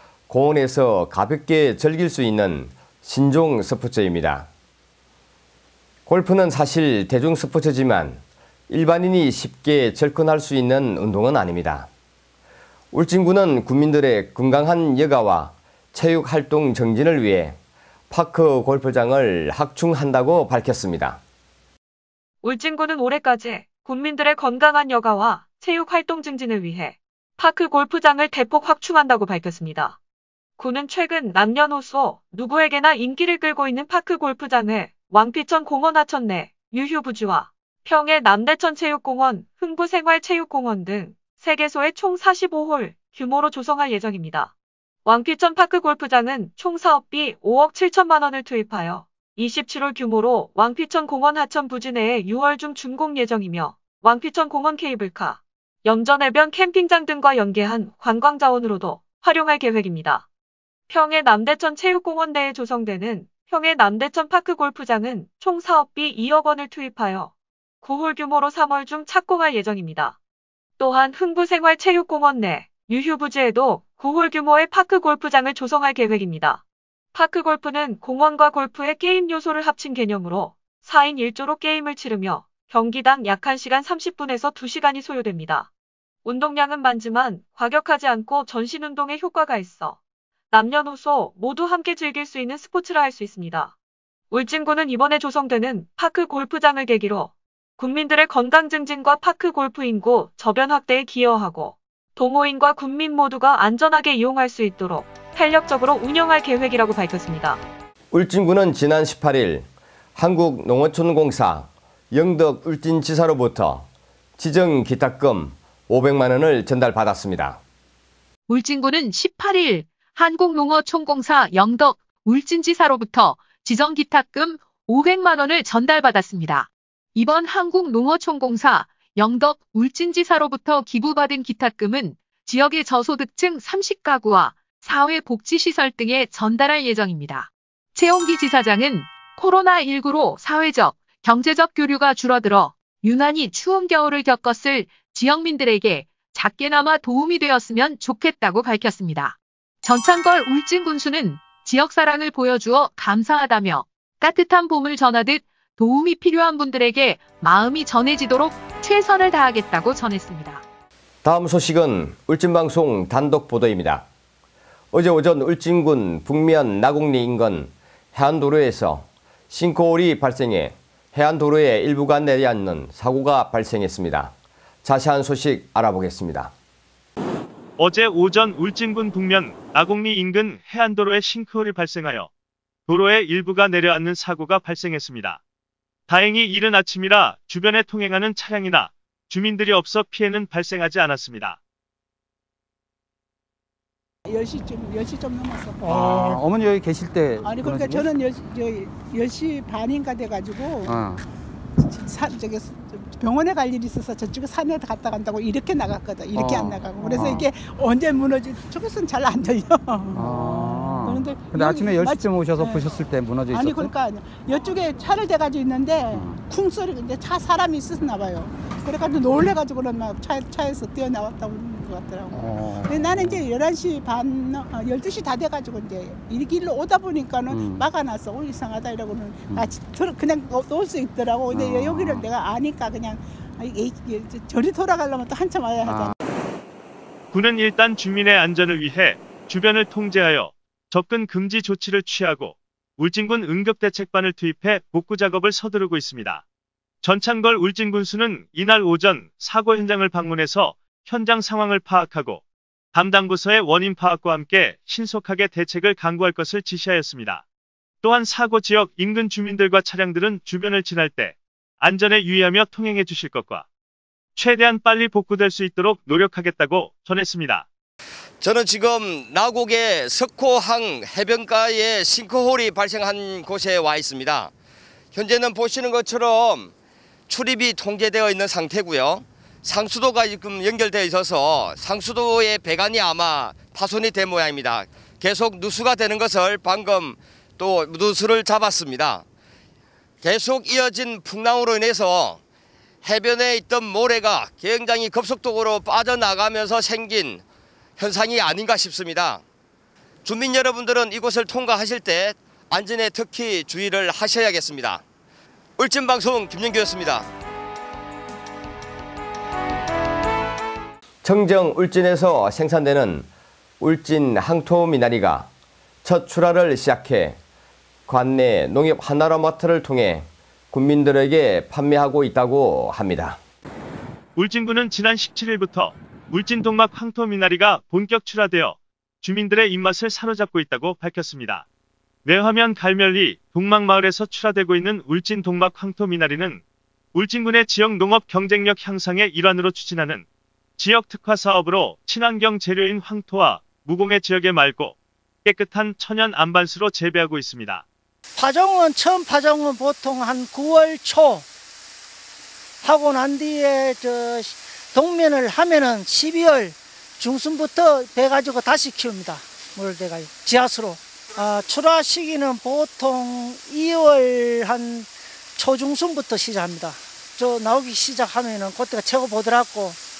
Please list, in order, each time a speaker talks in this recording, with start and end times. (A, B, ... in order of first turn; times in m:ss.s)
0:00.3-0:04.5 A
0:06.0-0:11.9 A
0:12.9-0:17.6 A
0:18.1-0:21.2 A
0:22.4-0:30.0 B
0:30.6-0:44.5 B
0:45.0-1:00.2 B
1:00.9-1:10.2 B
1:10.8-1:16.6 B
1:17.1-1:25.7 B
1:26.2-1:30.0 B
1:30.5-1:33.7 B
1:34.3-1:47.6 B
1:48.1-1:57.6 A
1:58.5-2:40.6 C
2:41.2-2:44.0 A
2:44.9-2:56.5 A
2:57.8-3:02.3 D
3:02.9-3:05.4 D
3:06.1-3:11.6 D
3:14.2-3:16.4 E
3:15.8-3:18.1 F
3:17.4-3:21.1 E
3:20.9-3:21.2 F
3:21.8-3:33.0 E
3:26.3-3:27.5 F
3:30.1-3:33.9 F
3:33.5-3:56.1 E
3:36.1-3:36.4 F
3:42.3-3:43.4 F
3:47.5-3:47.8 F
3:51.5-3:52.2 F
3:55.8-3:56.1 F
3:57.3-4:06.4 D
4:07.0-4:12.4 D
4:12.9-4:17.4 D
4:18.0-4:23.6 D
4:24.4-4:27.6 D
4:28.4-4:34.5 A
4:35.1-4:36.7 A
4:37.3-4:49.2 A
4:50.2-4:52.4 A
4:53.0-4:57.4 A
4:58.0-4:59.4 A
5:00.2-5:05.0 A
5:05.8-5:07.3 A
5:11.2-5:13.3 A
5:13.8-5:15.5 A
5:16.0-5:17.4 A
5:18.1-5:23.4 A
5:24.4-5:31.6 D
5:32.2-5:36.6 D
5:37.1-5:40.2 D
5:40.8-5:47.8 D
5:48.4-5:51.5 G
5:52.8-6:10.0 G